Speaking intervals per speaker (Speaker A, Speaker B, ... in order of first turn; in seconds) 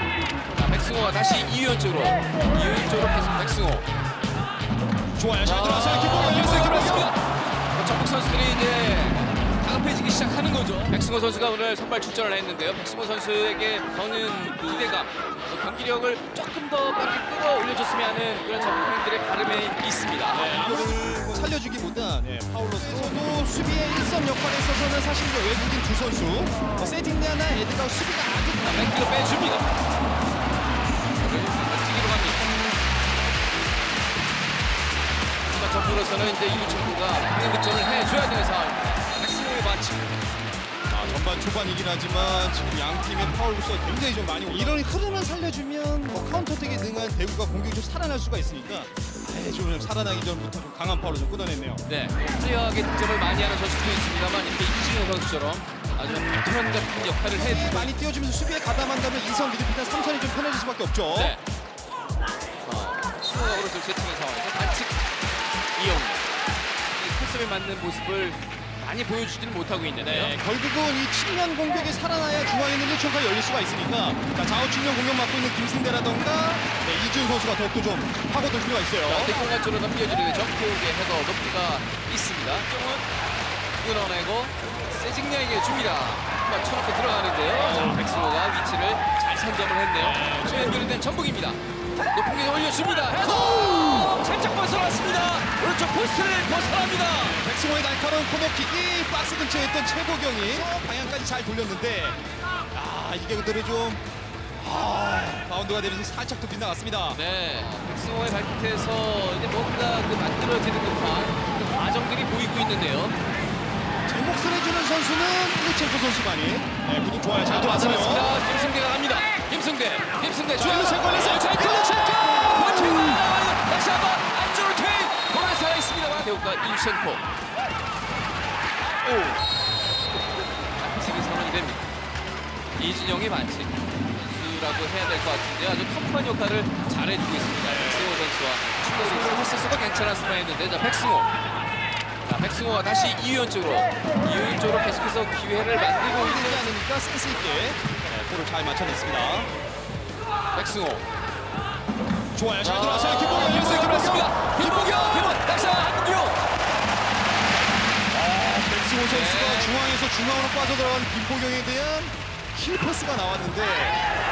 Speaker A: 0.6-3.9, 5.4-20.7, 22.8-23.2, 28.5-29.7, 31.2-32.5, 35.5-40.1, 51.9-58.0, 61.1-61.4, 62.6-65.0, 65.8-66.2, 67.0-70.3, 79.0-83.0, 83.8-91.6, 92.1-97.4, 107.1-113.2, 117.5-127.2, 130.8-131.8, 132.8-141.3, 142.2-146.8, 150.5-151.0, 152.6-156.4, 159.1-159.8
Speaker B: 5.2-7.1, 20.3-28.7, 40.9-51.8, 57.3-61.4, 70.0-79.4, 97.2-102.2, 102.7-104.0, 104.6-107.2, 114.1-118.3, 120.5-123.2, 137.6-138.2, 139.0-139.6, 146.0-149.5, 152.3-155.3, 158.1-164.0